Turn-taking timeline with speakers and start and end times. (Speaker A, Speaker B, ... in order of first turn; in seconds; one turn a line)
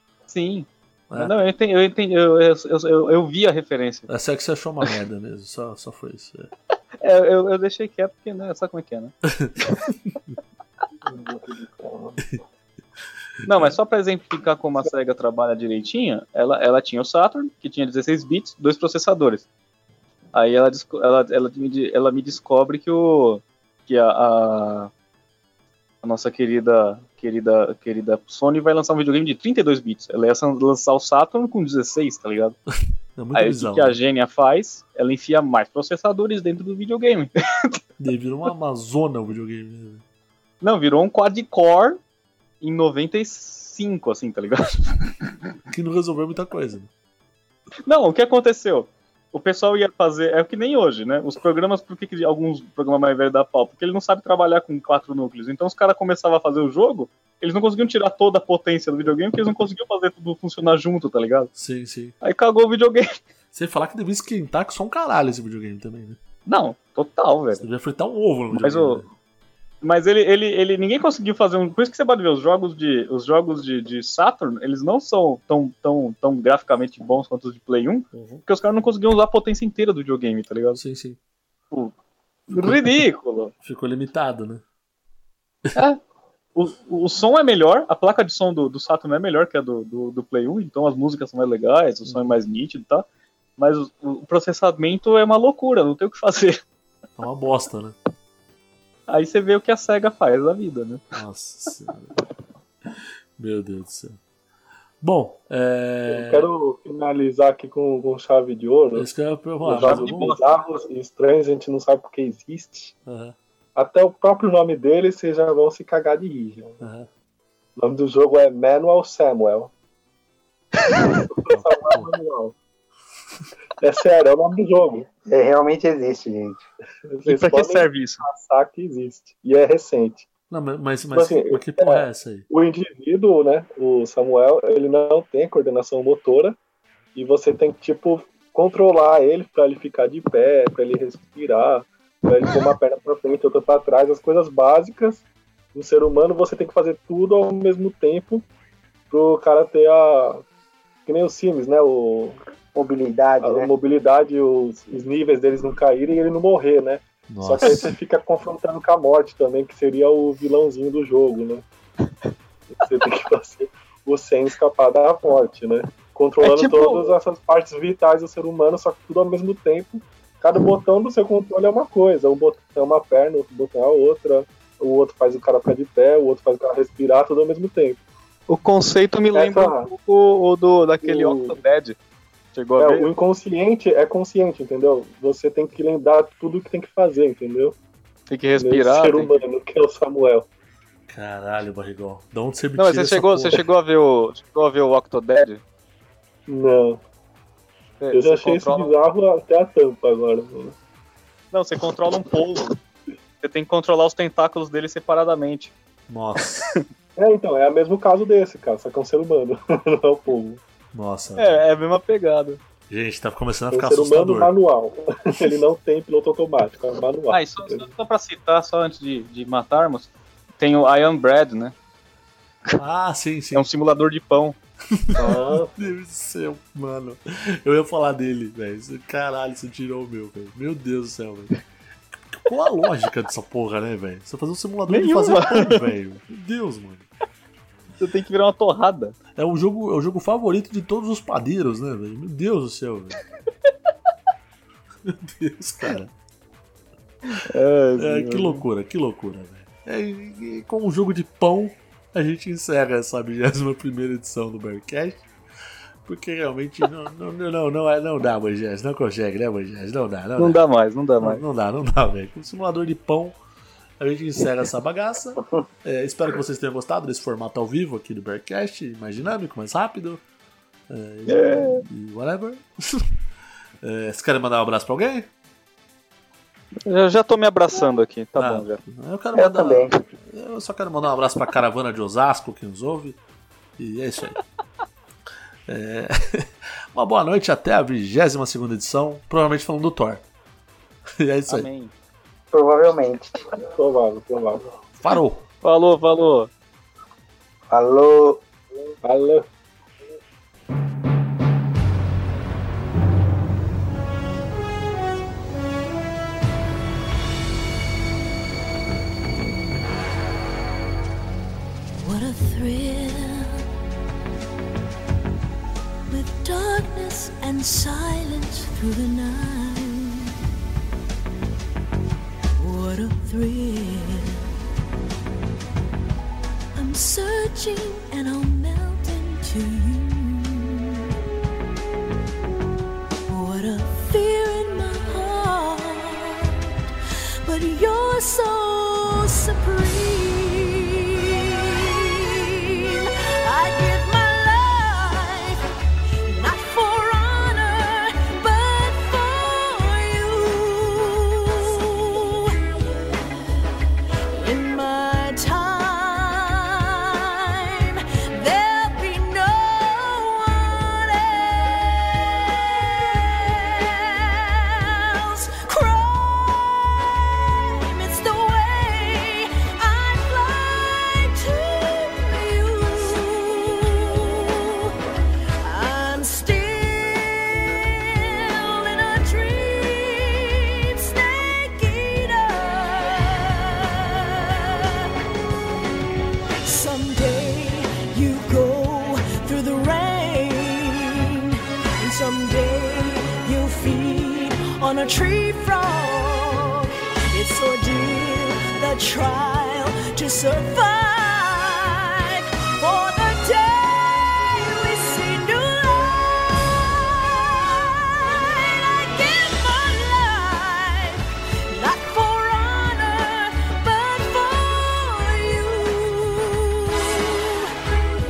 Speaker A: 0.3-4.1
Speaker B: 4.1-6.5
Speaker A: 7.0-9.8
Speaker B: 9.3-10.4
Speaker C: 11.1-12.2
Speaker A: 13.5-19.5
Speaker A: 20.3-24.9
Speaker A: 26.0-32.6
Speaker B: 33.2-34.0
Speaker A: 33.4-37.8
Speaker B: 38.0-40.0
Speaker A: 40.6-42.0
Speaker A: 42.6-45.2
Speaker B: 45.7-46.9
Speaker A: 47.9-61.5
Speaker B: 61.5-62.1
Speaker A: 62.2-63.1
Speaker B: 63.5-66.2
Speaker A: 66.5-67.6
Speaker B: 67.6-69.1
Speaker A: 68.5-69.0
Speaker A: 69.8-80.8
Speaker B: 78.1-78.4
Speaker B: 80.8-81.2
Speaker A: 82.5-83.5
Speaker B: 83.6-84.6
Speaker A: 86.5-93.1
Speaker B: 92.0-92.4
Speaker A: 93.6-96.6
Speaker B: 97.2-98.0
Speaker A: 99.1-101.0
Speaker B: 101.1-102.1
Speaker B: 103.4-104.2
Speaker B: 105.0-106.5
Speaker C: 106.1-109.1
Speaker B: 109.0-110.4
Speaker C: 109.6-112.9
Speaker A: 109.8-110.5
Speaker B: 113.1-113.4
Speaker C: 113.8-116.8
Speaker B: 116.8-117.1
Speaker C: 117.8-119.7
Speaker A: 120.8-121.1
Speaker C: 120.9-122.5
Speaker B: 121.5-122.1
Speaker C: 123.8-125.1
Speaker D: 125.3-126.6
Speaker C: 127.1-130.3
Speaker A: 127.2-128.2
Speaker B: 130.5-132.5
Speaker C: 131.1-136.6
Speaker C: 137.2-148.5
Speaker C: 149.1-150.4
Speaker C: 151.1-152.4
Speaker D: 152.8-153.7
Speaker C: 153.4-161.6
Speaker B: 157.3-158.0
Speaker C: 162.7-178.0
Speaker A: 166.4-167.1
Speaker A: 178.5-182.0
Speaker C: 179.3-179.9
Speaker C: 181.0-181.6
Speaker A: 182.5-183.1
Speaker C: 182.8-187.8
Speaker A: 188.3-189.4
Speaker C: 188.6-190.5
Speaker B: 191.1-193.7
Speaker A: 192.8-195.6
Speaker C: 196.5-197.0
Speaker A: 198.0-198.9
Speaker C: 198.1-200.8
Speaker A: 201.5-202.8
Speaker A: 203.4-205.7
Speaker B: 206.1-206.7
Speaker C: 207.2-210.6
Speaker B: 210.9-211.6
Speaker A: 211.4-212.6
Speaker B: 212.9-214.5
Speaker C: 213.7-217.9
Speaker A: 217.3-221.8
Speaker B: 222.8-223.7
Speaker A: 223.6-224.6
Speaker B: 224.9-231.5
Speaker C: 225.2-225.8
Speaker B: 232.3-237.1
Speaker A: 234.9-235.8
Speaker A: 238.0-239.2
Speaker B: 239.4-243.2
Speaker B: 245.1-246.1
Speaker A: 247.3-248.7
Speaker B: 248.0-255.2
Speaker B: 256.1-260.6
Speaker A: 260.4-261.4
Speaker B: 261.2-263.4
Speaker B: 264.0-270.2
Speaker B: 270.9-273.1
Speaker A: 271.3-271.8
Speaker B: 273.8-275.3
Speaker A: 276.9-278.8
Speaker B: 278.4-283.2
Speaker D: 279.4-279.9
Speaker B: 283.8-284.4
Speaker B: 285.7-290.2
Speaker B: 291.2-291.7
Speaker A: 291.5-291.9
Speaker D: 292.5-293.5
Speaker C: 293.7-294.7
Speaker B: 294.9-295.4
Speaker A: 295.6-296.5
Speaker D: 297.7-298.4
Speaker C: 299.0-299.5
Speaker E: 312.0-313.7
Speaker E: 316.1-320.3
Speaker E: 322.6-324.5
Speaker E: 326.8-331.1
Speaker E: 333.3-336.5
Speaker E: 337.4-345.6
Speaker E: 346.2-352.6
Speaker E: 354.3-374.9
Speaker E: 375.6-385.1
Speaker E: 386.6-417.7